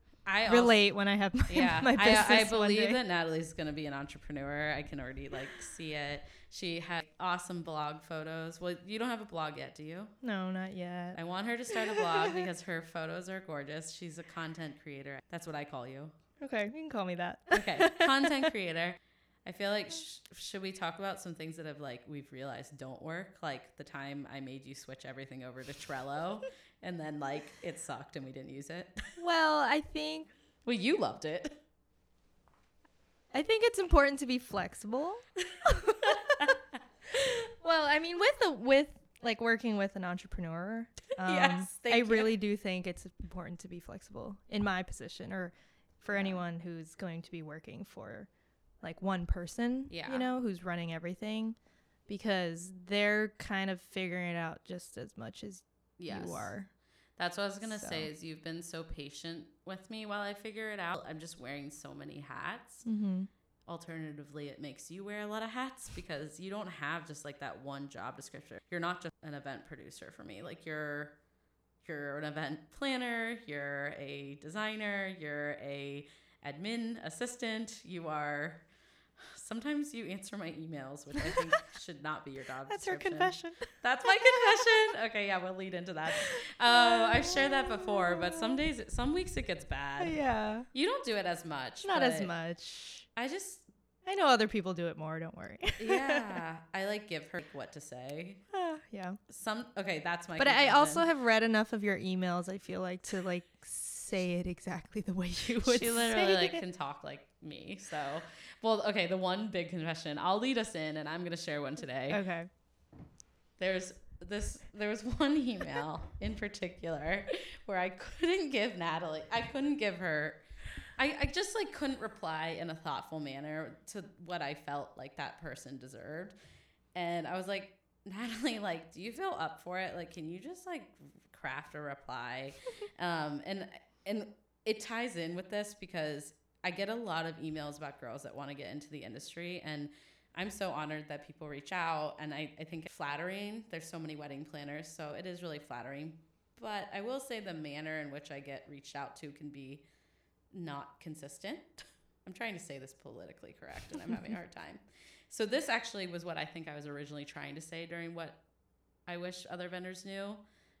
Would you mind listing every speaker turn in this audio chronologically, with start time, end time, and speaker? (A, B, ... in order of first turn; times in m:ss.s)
0:00.2-0:10.1 A
0:00.4-0:03.0 B
0:10.2-0:11.2 B
0:11.1-0:16.1 A
0:11.7-0:12.1 B
0:16.4-0:18.3 B
0:17.5-0:29.2 A
0:29.2-0:30.3 B
0:30.6-0:31.6 A
0:33.3-0:36.2 B
0:36.3-0:36.5 A
0:37.5-0:48.3 B
0:41.2-0:42.3 A
0:46.1-0:46.4 A
0:48.8-0:56.7 B
0:49.9-0:50.3 A
0:56.0-0:56.6 A
0:57.2-1:02.8 A
0:57.6-0:58.1 B
1:02.8-1:03.3 B
1:03.6-1:11.2 A
1:11.8-1:32.3 A
1:22.7-1:24.6 B
1:26.3-1:28.6 B
1:30.0-1:30.7 B
1:31.8-1:33.1 B
1:33.2-1:33.7 A
1:34.0-1:36.3 B
1:35.8-1:38.4 A
1:38.5-1:39.2 B
1:39.3-1:41.1 A
1:40.4-1:46.6 B
1:45.6-1:52.2 A
1:52.1-1:52.5 B
1:53.6-2:06.4 A
2:06.9-2:29.8 A
2:30.5-2:38.4 A
2:39.0-2:40.4 A